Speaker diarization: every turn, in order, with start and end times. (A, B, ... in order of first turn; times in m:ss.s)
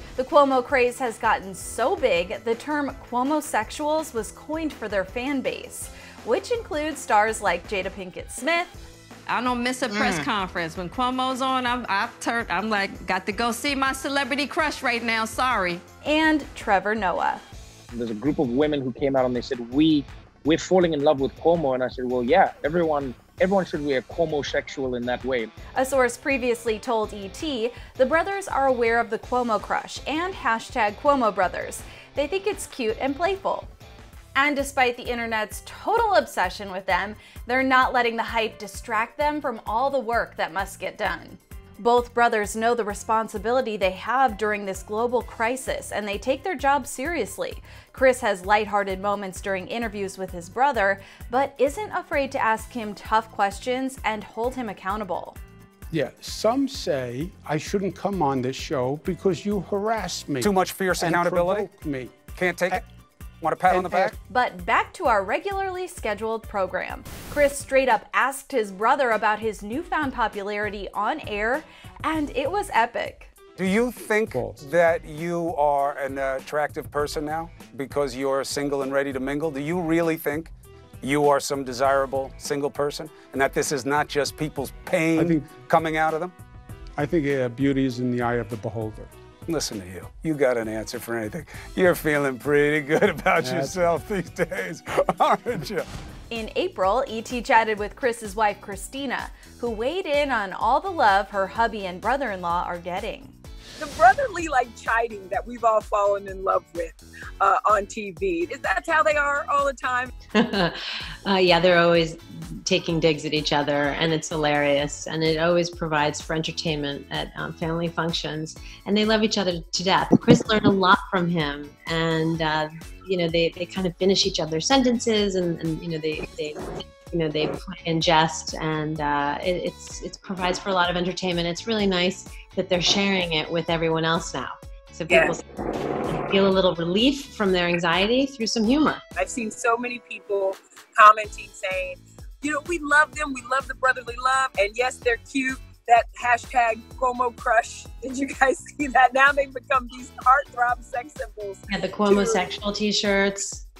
0:00.2-0:08.7 A
0:09.3-0:15.8 B
0:16.0-0:17.4 A
0:17.9-0:25.5 C
0:25.7-0:33.7 A
0:34.3-0:55.4 A
0:55.9-1:02.2 D
1:00.4-1:01.7 E
1:02.3-1:02.8 E
1:03.4-1:04.1 E
1:03.7-1:04.1 D
1:04.3-1:13.3 A
1:13.6-1:26.3 E
1:14.3-1:14.6 D
1:25.2-1:25.5 D
1:27.0-1:29.1 D
1:29.4-1:35.9 E
1:33.4-1:33.8 D
1:36.3-1:43.3 A
1:43.8-1:50.1 F
1:50.3-2:15.4 G
2:15.1-2:15.4 F
2:16.0-2:19.0 G
2:19.2-2:32.4 F
2:31.7-2:33.6 G